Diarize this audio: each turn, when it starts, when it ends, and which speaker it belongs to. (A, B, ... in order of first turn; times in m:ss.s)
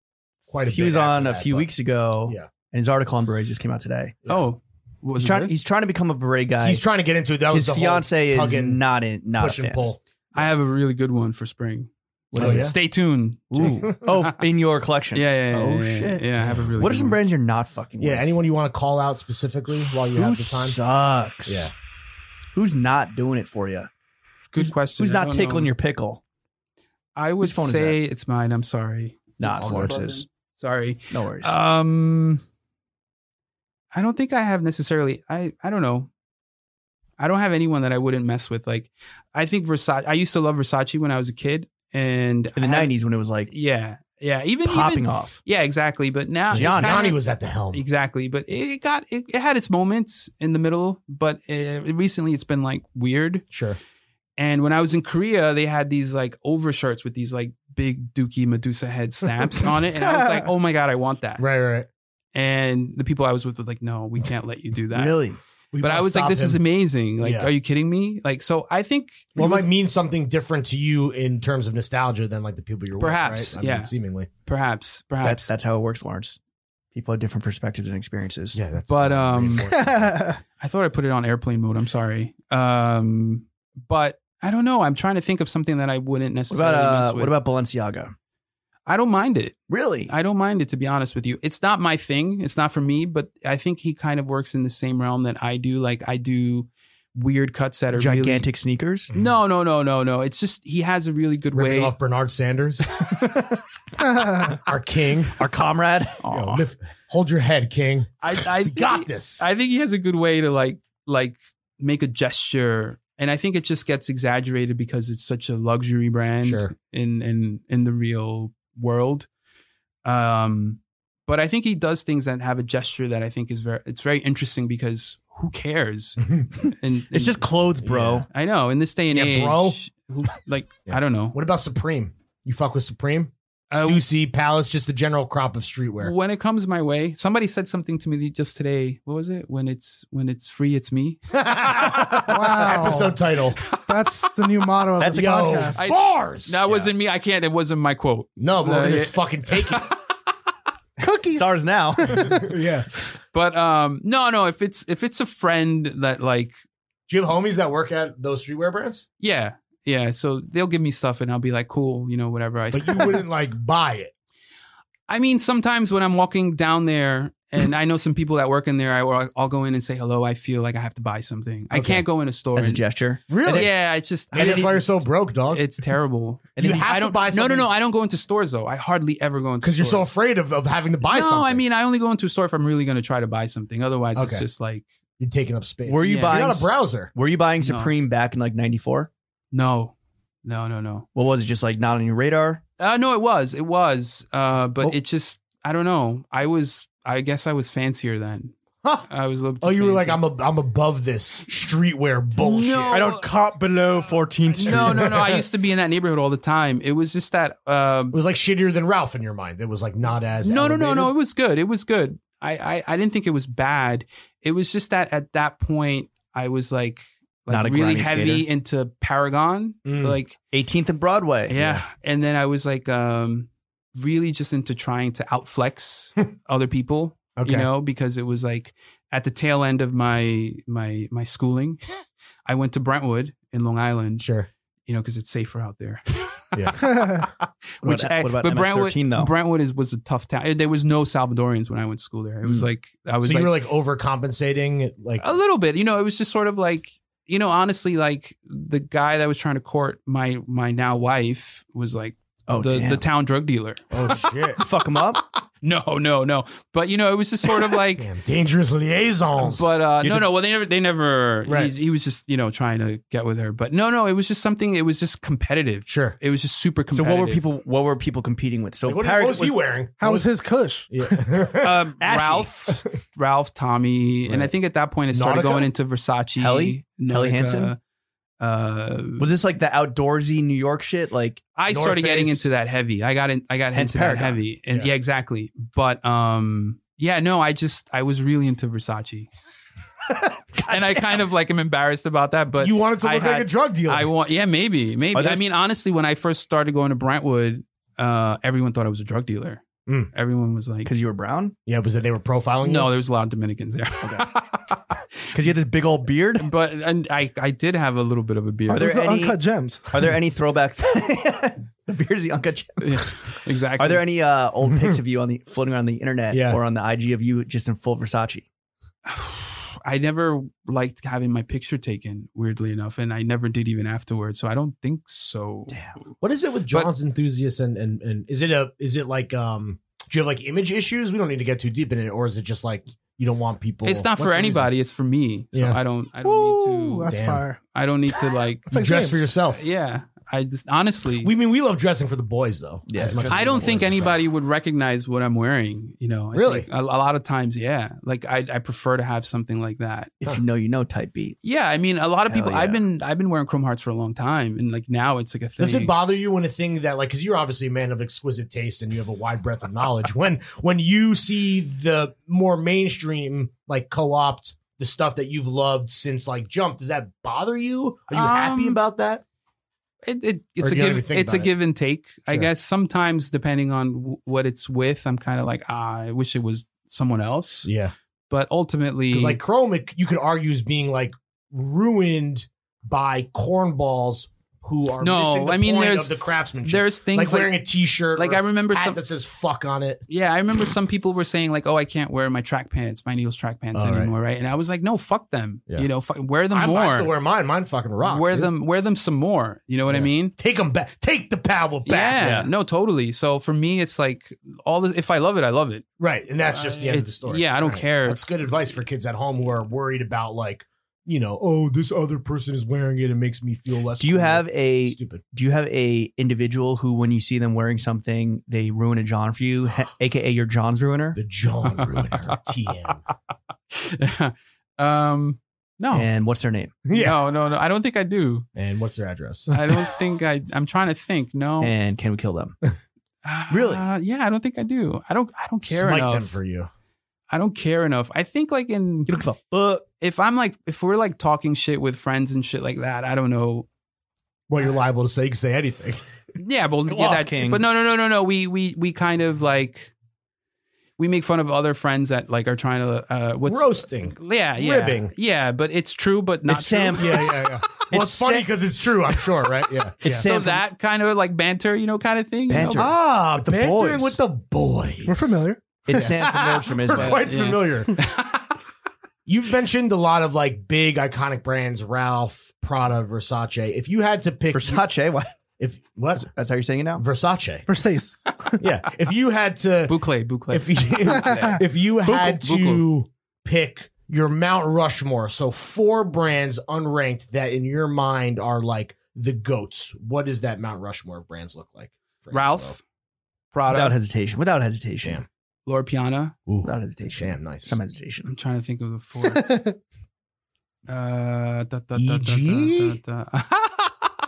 0:00.4-0:01.7 A
0:00.6-0:04.2 B
0:04.3-0:05.5 C
0:05.2-0:06.8 B
0:06.6-0:08.8 A
0:07.5-0:09.8 B
0:09.4-0:10.5 A
0:10.3-0:14.4 C
0:12.3-0:12.7 B
0:12.3-0:12.7 A
0:13.5-0:18.3 B
0:15.1-0:17.2 C
0:16.4-0:16.7 A
0:18.0-0:20.8 A
0:20.1-0:21.7 B
0:21.4-0:21.7 A
0:22.5-0:23.9 B
0:24.5-0:25.7 C
0:24.6-0:26.2 B
0:27.2-0:32.4 C
0:27.4-0:28.0 B
0:29.4-0:30.2 B
0:29.6-0:30.2 A
0:31.1-0:31.6 B
0:33.9-0:36.1 C
0:37.2-0:42.9 C
0:42.6-0:43.5 B
0:43.5-0:47.2 C
0:44.6-0:45.4 B
0:46.5-0:47.8 A
0:46.5-0:47.1 B
0:47.7-0:53.4 C
0:53.5-0:53.8 A
0:54.4-1:01.4 C
1:00.0-1:00.5 D
1:01.4-1:01.9 A
1:02.3-1:05.2 C
1:04.9-1:05.4 B
1:05.7-1:06.6 A
1:05.8-1:09.6 C
1:07.2-1:07.5 A
1:09.4-1:14.3 A
1:13.0-1:13.9 C
1:14.4-1:15.5 C
1:15.2-1:16.4 B
1:16.9-1:18.6 B
1:18.5-1:20.2 A
1:18.9-1:19.7 C
1:19.7-1:20.4 D
1:20.6-1:27.3 C
1:26.5-1:28.1 B
1:28.9-1:29.6 C
1:29.7-1:30.1 B
1:30.1-1:38.5 C
1:37.9-1:39.1 B
1:39.1-1:41.9 C
1:41.5-1:43.2 A
1:44.1-1:44.5 D
1:44.3-1:45.3 A
1:45.4-1:46.2 B
1:46.2-1:46.6 C
1:46.3-1:49.4 A
1:48.2-1:59.3 C
1:56.4-1:56.7 A
2:00.0-2:07.4 C
2:07.1-2:08.2 B
2:07.8-2:08.2 A
2:08.3-2:11.4 C
2:09.1-2:09.8 A
2:10.9-2:16.1 A
2:13.7-2:14.0 C
2:16.0-2:21.2 C
2:21.3-2:23.6 A
2:21.7-2:22.1 C
2:22.3-2:23.2 D
2:23.6-2:23.9 C
2:23.9-2:25.8 D
2:25.0-2:26.9 A
2:25.7-2:29.9 C
2:28.4-2:30.0 A
2:31.0-2:32.5 D
2:31.3-2:32.3 B
2:32.1-2:32.9 A
2:33.3-2:36.5 C
2:37.1-2:39.0 A
2:39.2-2:43.2 C
2:42.7-2:44.1 A
2:45.1-2:52.8 C
2:51.7-2:52.0 A
2:52.5-2:53.7 B
2:53.3-2:53.7 A
2:53.4-3:00.1 C
2:54.3-2:55.6 A
2:56.6-2:56.9 B
2:56.6-2:57.7 A
2:59.6-3:01.6 A
3:01.1-3:04.9 C
3:04.1-3:04.4 A
3:05.2-3:07.1 A
3:05.8-3:09.1 B
3:06.0-3:06.4 C
3:07.6-3:07.9 C
3:09.5-3:11.0 C
3:11.1-3:12.6 B
3:12.8-3:18.5 C
3:19.1-3:20.2 C
3:19.6-3:23.0 A
3:22.4-3:23.3 C
3:22.9-3:25.4 B
3:24.5-3:28.2 C
3:24.6-3:25.4 A
3:28.1-3:31.1 A
3:30.4-3:40.3 C
3:37.5-3:38.4 B
3:39.8-3:40.2 A
3:40.5-3:41.6 B
3:41.5-3:51.8 C
3:41.5-3:41.8 A
3:47.4-3:47.7 A
3:52.4-3:54.3 C
3:54.2-3:54.5 A
3:54.8-4:03.5 C
3:56.8-3:57.2 D
3:57.8-3:59.3 B
4:03.2-4:05.4 A
4:05.2-4:14.3 C
4:12.5-4:13.0 B
4:13.9-4:14.6 A
4:14.6-4:15.2 B
4:15.6-4:18.1 C
4:17.8-4:19.7 A
4:19.4-4:27.4 C
4:21.5-4:21.7 A
4:25.9-4:26.2 A
4:26.9-4:29.5 B
4:28.8-4:30.3 A
4:30.0-4:31.2 D
4:30.9-4:31.8 A
4:31.6-4:37.8 C
4:32.0-4:32.5 B
4:35.1-4:35.7 A
4:36.4-4:37.7 B
4:38.4-4:39.3 C
4:39.2-4:41.4 B
4:41.6-4:49.3 C
4:41.7-4:42.5 A
4:43.7-4:44.4 B
4:50.5-4:51.2 B
4:50.7-5:00.9 C
4:52.6-4:54.1 A
4:55.1-4:55.4 B
5:00.8-5:01.5 B
5:01.6-5:02.9 A
5:02.6-5:04.8 C
5:04.0-5:04.3 B
5:05.3-5:06.5 B
5:06.4-5:08.9 C
5:08.7-5:09.4 B
5:08.7-5:10.0 D
5:09.9-5:18.5 B
5:12.8-5:14.0 C
5:14.7-5:15.0 A
5:16.3-5:16.6 A
5:19.0-5:26.1 C
5:25.7-5:25.9 B
5:26.2-5:34.7 A
5:33.8-5:37.1 C
5:35.5-5:35.8 A
5:36.2-5:37.6 D
5:37.1-5:37.4 A
5:37.7-5:41.3 C
5:38.7-5:39.6 A
5:41.2-5:44.2 A
5:42.9-5:44.0 B
5:43.3-5:50.1 C
5:46.3-5:46.7 A
5:50.2-5:51.4 B
5:51.4-5:55.9 C
5:52.3-5:52.8 B
5:55.6-6:09.2 A
6:08.1-6:08.8 C
6:10.0-6:17.7 C
6:10.6-6:11.5 A
6:17.6-6:17.9 A
6:18.3-6:19.4 C
6:19.1-6:30.0 A
6:25.0-6:27.6 C
6:28.1-6:29.0 C
6:30.1-6:37.1 C
6:33.7-6:34.1 A
6:36.5-6:38.5 A
6:38.0-6:40.3 C
6:39.9-6:42.2 A
6:41.8-6:45.8 C
6:42.2-6:42.5 B
6:46.0-6:55.2 A
6:46.4-6:48.3 C
6:54.0-7:01.2 B
7:01.1-7:03.0 A
7:01.7-7:02.4 C
7:03.7-7:06.1 C
7:05.9-7:06.8 B
7:06.8-7:07.2 A
7:06.9-7:08.4 C
7:08.6-7:09.9 A
7:09.5-7:11.7 C
7:11.6-7:12.6 B
7:13.2-7:16.4 C
7:13.5-7:13.8 B
7:15.6-7:16.7 A
7:17.3-7:19.2 C
7:19.1-7:19.8 B
7:20.0-7:23.6 C
7:24.5-7:26.0 A
7:26.4-7:29.9 C
7:26.9-7:27.6 B
7:31.0-7:37.4 C
7:33.4-7:35.1 A
7:36.4-7:38.5 B
7:37.0-7:40.2 A
7:40.0-7:40.6 B
7:40.0-7:42.9 C
7:42.5-7:44.2 B
7:42.7-7:48.0 A
7:45.0-7:45.6 D
7:45.8-7:47.2 B
7:46.9-7:48.5 C
7:49.2-7:54.8 A
7:54.5-7:55.3 B
7:55.6-7:56.3 A
7:56.3-7:57.0 B
7:57.0-7:57.6 A
7:57.7-7:58.6 D
7:58.6-8:00.0 A
7:59.9-8:01.6 C
8:00.5-8:12.8 A
8:01.1-8:01.6 D
8:02.1-8:02.4 B
8:02.4-8:02.8 C
8:12.3-8:12.8 C
8:13.5-8:14.0 C
8:13.7-8:15.2 B
8:15.6-8:16.4 C
8:16.5-8:17.8 A
8:16.6-8:18.3 B
8:18.2-8:19.5 C
8:19.2-8:19.8 D
8:20.9-8:24.1 C
8:22.0-8:23.0 A